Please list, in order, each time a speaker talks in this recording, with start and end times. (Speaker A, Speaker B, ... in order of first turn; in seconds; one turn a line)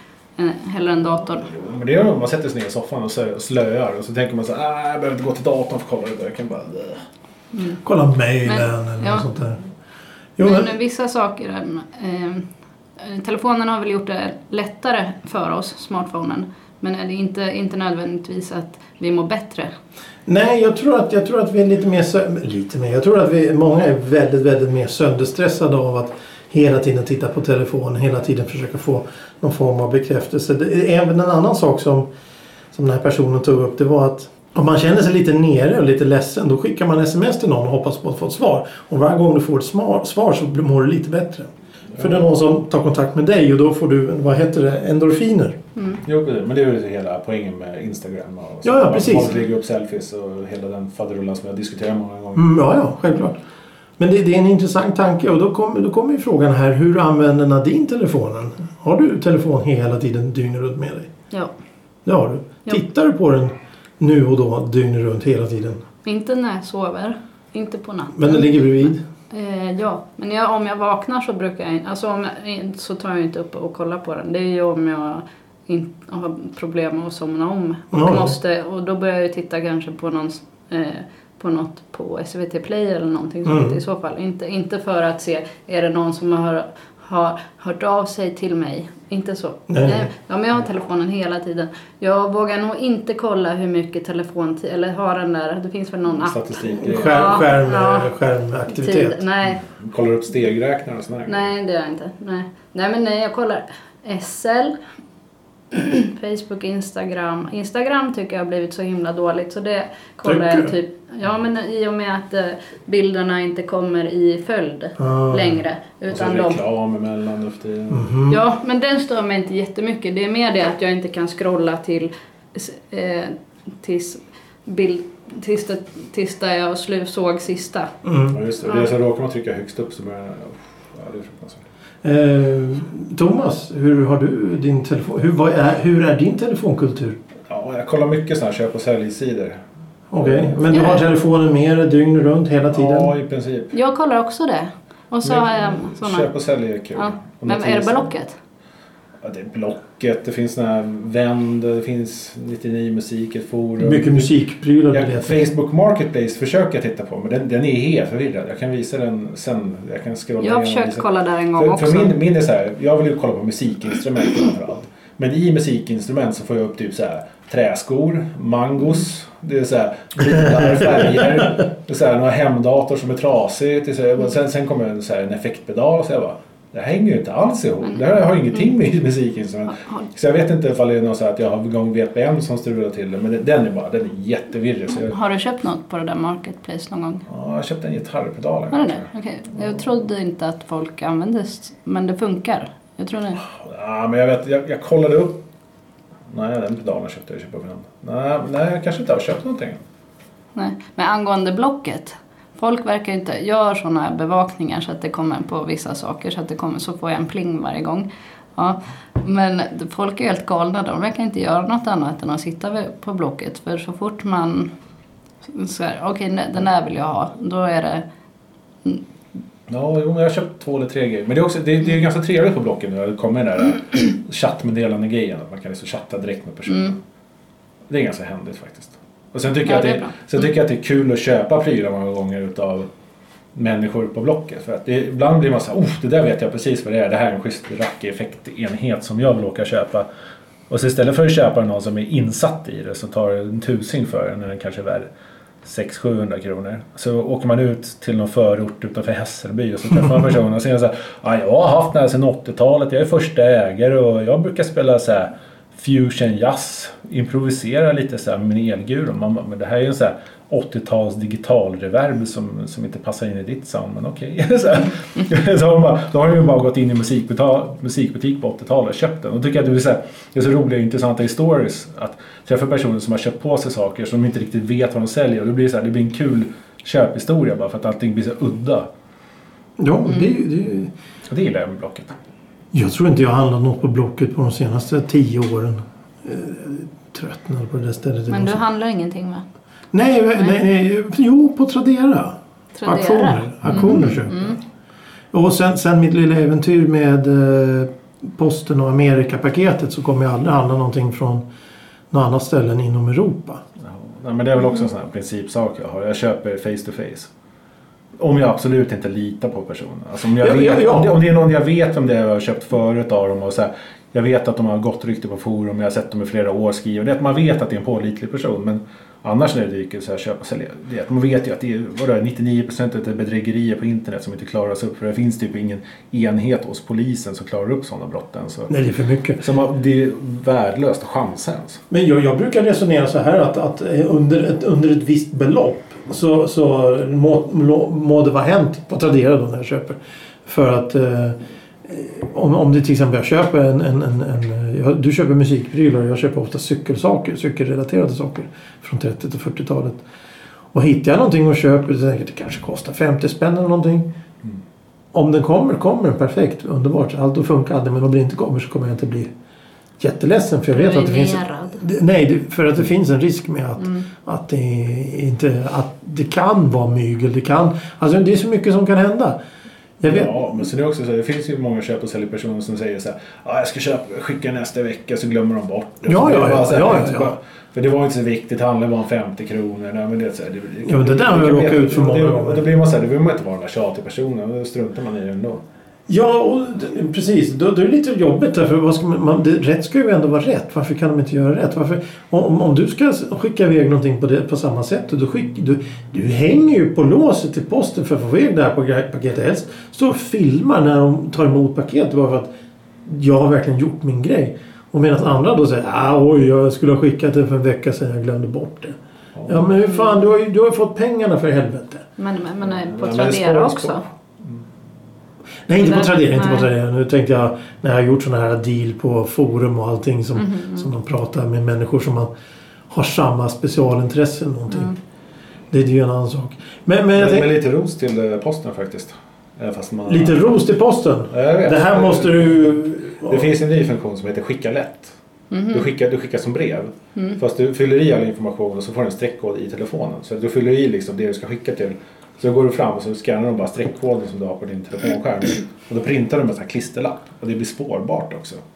Speaker A: 0.4-1.5
Speaker B: 1.5-7.0
Speaker A: 7.5-7.8
Speaker C: 7.8-9.6
Speaker A: 8.4-9.2
Speaker C: 10.4-10.7
Speaker A: 10.4-12.5
Speaker A: 13.0-19.7
Speaker C: 20.3-32.1
Speaker C: 32.7-45.6
Speaker B: 46.0-52.5
Speaker C: 48.6-49.3
Speaker C: 52.3-53.4
Speaker C: 54.0-61.1
Speaker C: 62.0-65.8
Speaker A: 66.0-68.7
Speaker C: 68.1-69.0
Speaker A: 69.3-98.1
Speaker C: 77.9-78.3
Speaker C: 83.4-83.8
Speaker C: 89.7-90.1
Speaker B: 96.2-97.5
Speaker C: 96.8-99.2
Speaker A: 98.7-99.6
Speaker B: 99.4-101.5
Speaker A: 101.3-104.8
Speaker A: 105.7-116.6
Speaker C: 110.2-110.7
Speaker C: 115.0-115.6
Speaker B: 116.1-118.1
Speaker C: 117.9-118.4
Speaker A: 118.3-127.9
Speaker C: 128.0-128.4
Speaker B: 128.3-131.6
Speaker C: 132.0-137.2
Speaker B: 137.5-139.6
Speaker C: 140.1-143.1
Speaker B: 140.2-140.6
Speaker A: 140.7-141.0
Speaker B: 142.7-143.7
Speaker A: 143.7-146.3
Speaker B: 145.2-148.1
Speaker A: 146.9-148.3
Speaker B: 149.2-154.3
Speaker C: 153.8-155.4
Speaker B: 154.9-185.2
Speaker A: 160.4-162.1
Speaker A: 185.0-187.2
Speaker B: 187.3-189.1
Speaker A: 188.7-193.4
Speaker B: 193.4-195.4
Speaker B: 196.3-199.8
Speaker A: 200.5-214.7
Speaker A: 215.4-218.0
Speaker B: 219.7-227.0
Speaker B: 227.9-232.9
Speaker A: 229.6-230.3
Speaker B: 233.5-240.1
Speaker B: 240.7-245.1
Speaker B: 245.6-278.9
Speaker C: 279.8-280.9
Speaker B: 281.3-282.1
Speaker C: 282.7-288.6
Speaker A: 288.3-289.4
Speaker C: 289.9-294.6
Speaker A: 292.7-294.6
Speaker C: 295.3-301.4
Speaker C: 302.1-303.6
Speaker B: 303.8-307.3
Speaker B: 308.2-328.7
Speaker C: 310.4-311.2
Speaker C: 328.7-329.4
Speaker B: 329.4-331.8
Speaker C: 331.9-350.0
Speaker C: 350.7-354.1
Speaker C: 355.1-359.3
Speaker C: 360.0-369.4
Speaker A: 360.7-361.8
Speaker C: 370.0-370.4
Speaker B: 370.1-385.6
Speaker C: 376.1-377.4
Speaker C: 380.8-382.6
Speaker C: 386.1-402.5
Speaker C: 403.1-412.1
Speaker B: 409.3-409.6
Speaker A: 412.2-414.0
Speaker B: 412.6-414.6
Speaker C: 415.7-422.3
Speaker A: 415.8-416.7
Speaker A: 420.4-420.9
Speaker C: 422.9-424.9
Speaker A: 424.7-424.9
Speaker C: 425.7-427.5
Speaker B: 427.1-430.4
Speaker C: 430.1-433.5
Speaker B: 431.3-435.1
Speaker A: 435.5-435.8
Speaker B: 435.7-448.6